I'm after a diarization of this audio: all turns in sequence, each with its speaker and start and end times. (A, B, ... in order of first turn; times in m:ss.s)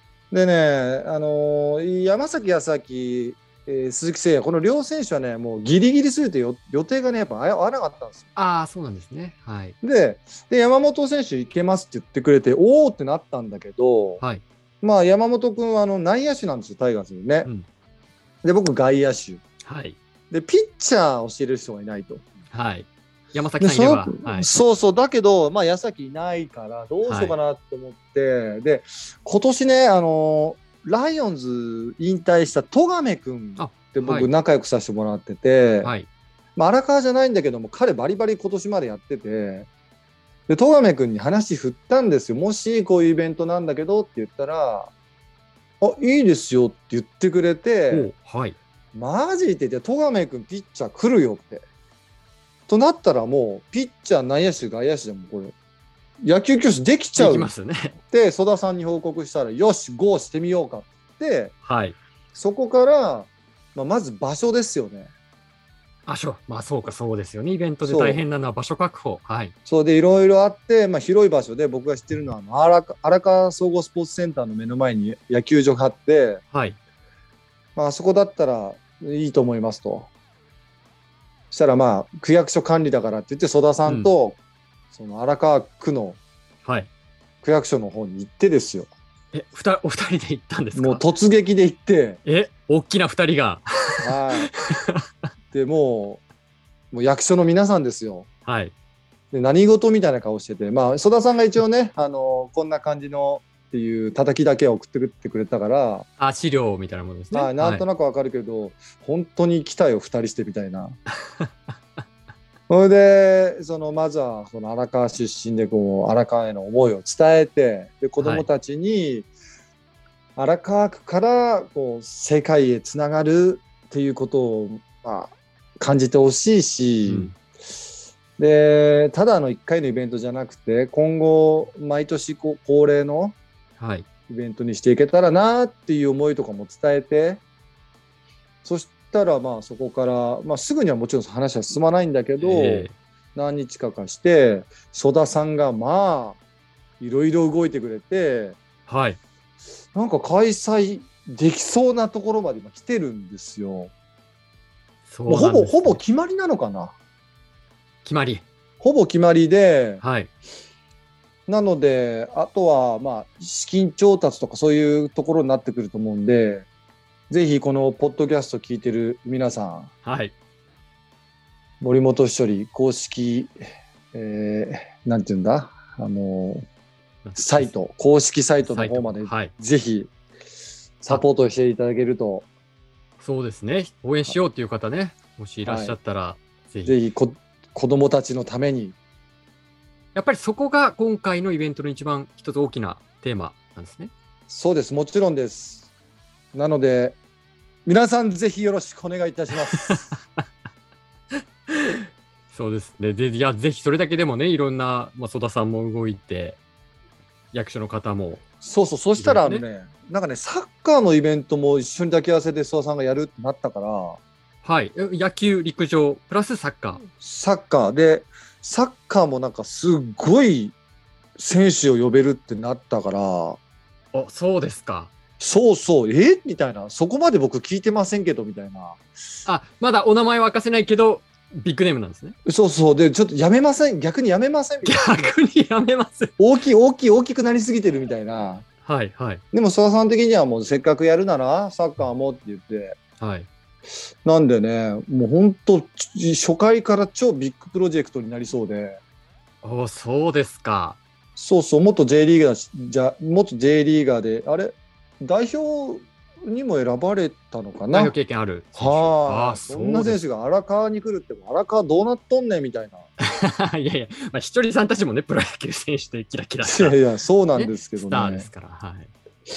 0:00.3-0:08.3 A
0:08.4-0:09.8 B
0:09.8-0:14.2 A
0:14.8-0:17.5 A
0:18.4-0:19.4 A
0:19.6-0:20.0 B
0:20.3-0:22.2 A
0:22.5-0:24.5 B
0:23.6-0:35.9 A
0:27.0-0:27.4 B
0:33.6-0:34.3 B
0:35.8-0:36.1 B
0:36.6-0:39.7 A
0:40.5-0:44.9 A
0:45.8-0:48.1 A
0:47.9-0:48.6 B
0:48.9-0:51.6 A
0:52.7-0:55.5 A
0:56.2-0:57.5 A
0:57.2-0:58.0 B
0:58.1-1:01.5 A
1:01.6-1:02.0 B
1:02.3-1:05.1 A
1:06.1-1:09.5 B
1:07.8-1:08.2 A
1:09.7-1:16.4 A
1:16.5-1:16.8 B
1:17.8-1:20.1 A
1:21.5-1:24.4 A
1:24.9-1:26.2 A
1:27.4-1:28.9 A
1:29.3-1:31.0 B
1:30.8-1:32.2 A
1:32.2-1:35.0 B
1:34.0-1:34.5 A
1:35.5-1:36.2 A
1:36.9-1:38.3 A
1:38.5-1:38.7 B
1:39.3-1:46.1 A
1:46.2-1:47.8 B
1:47.3-1:51.0 A
1:52.7-1:59.3 A
1:58.2-1:58.5 B
2:00.4-2:07.3 A
2:07.1-2:07.4 B
2:08.4-2:13.4 A
2:13.8-2:14.1 B
2:14.3-2:17.4 A
2:18.6-2:26.4 A
2:22.4-2:23.0 B
2:27.0-2:28.6 A
2:28.9-2:29.2 B
2:29.9-2:33.9 A
2:35.1-2:36.0 B
2:35.3-2:36.9 A
2:38.0-2:38.4 B
2:38.8-2:40.0 A
2:40.0-2:40.3 B
2:41.5-2:46.7 A
2:47.3-2:49.9 A
2:50.0-2:50.3 B
2:51.8-2:53.5 A
2:54.1-2:56.7 A
2:57.2-2:57.7 B
2:57.4-3:00.1 A
2:58.6-2:59.5 B
3:01.0-3:02.5 A
3:03.2-3:07.0 B
3:05.6-3:06.0 A
3:06.9-3:09.0 A
3:10.2-3:14.1 B
3:14.5-3:15.9 A
3:16.5-3:17.2 A
3:17.9-3:20.1 A
3:19.7-3:20.4 B
3:21.7-3:26.6 B
3:27.5-3:28.4 B
3:28.6-3:34.2 A
3:29.2-3:29.6 B
3:34.6-3:37.0 B
3:37.2-3:40.7 A
3:41.4-3:43.6 A
3:44.1-3:45.1 B
3:45.4-3:49.0 A
3:49.5-3:52.4 B
3:52.5-3:55.3 A
3:54.8-3:56.3 B
3:56.4-3:58.6 A
3:58.8-3:59.4 B
3:59.5-4:03.0 A
4:03.2-4:03.5 B
4:04.2-4:09.0 A
4:09.6-4:11.0 B
4:11.4-4:18.1 A
4:17.9-4:20.2 B
4:18.8-4:23.1 A
4:23.2-4:27.0 B
4:26.6-4:28.5 A
4:27.6-4:29.1 B